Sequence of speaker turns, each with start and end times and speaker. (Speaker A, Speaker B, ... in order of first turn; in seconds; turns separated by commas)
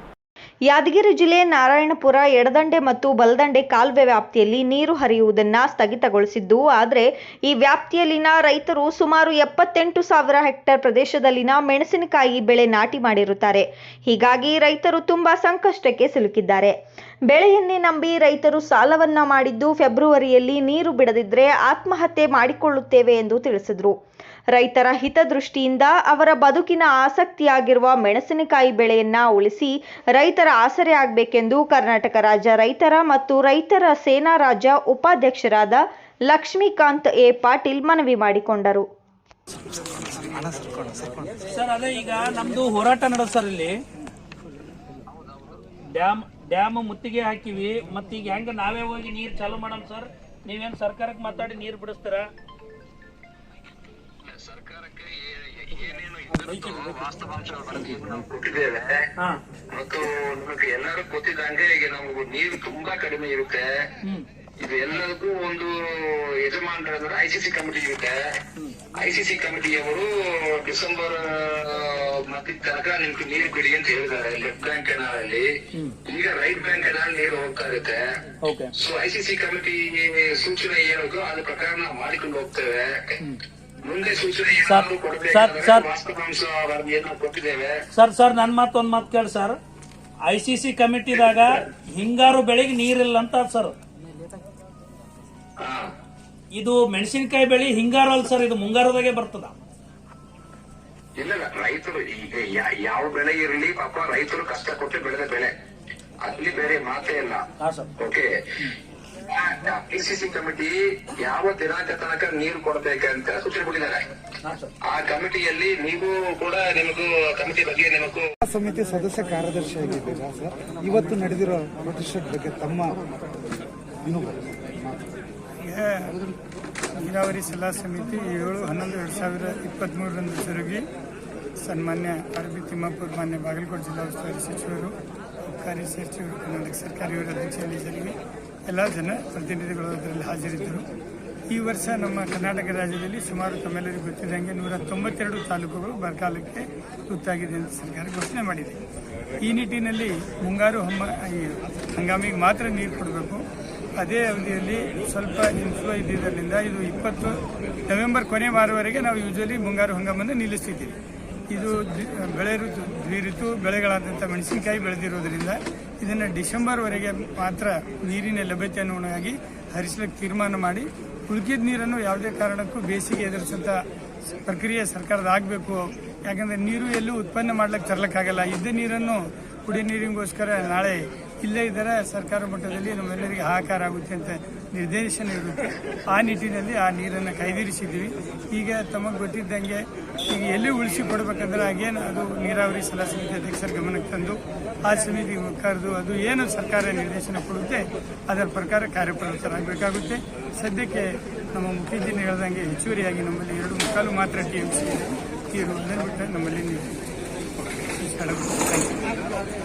Speaker A: 0.7-16.8, Speaker A: 17.3-23.9, Speaker A: 24.6-38.9, Speaker B: 39.9-41.4, Speaker C: 41.5-43.7, Speaker D: 45.1-45.6, Speaker C: 46.0-52.3, Speaker D: 54.2-59.0, Speaker D: 59.7-63.7, Speaker D: 64.6-68.2, Speaker D: 69.0-75.5, Speaker D: 76.1-78.0, Speaker C: 78.4-78.7, Speaker D: 78.8-83.1, Speaker D: 83.8-87.8, Speaker C: 84.6-85.9, Speaker C: 87.9-89.6, Speaker C: 90.3-93.7, Speaker D: 95.6-95.9, Speaker C: 96.5-99.5, Speaker D: 101.2-105.5, Speaker D: 106.2-107.4, Speaker C: 107.6-107.9, Speaker D: 108.0-108.3, Speaker D: 109.3-114.0, Speaker C: 114.4-114.7, Speaker D: 114.9-118.2, Speaker B: 118.4-123.0, Speaker B: 124.0-125.1, Speaker E: 125.6-126.2, Speaker E: 127.0-130.9, Speaker E: 131.6-138.2, Speaker E: 138.7-140.9, Speaker E: 141.5-148.8, Speaker E: 149.4-153.4, Speaker E: 154.0-161.0, Speaker E: 161.5-173.8, Speaker E: 174.5-207.0, Speaker E: 207.7-209.1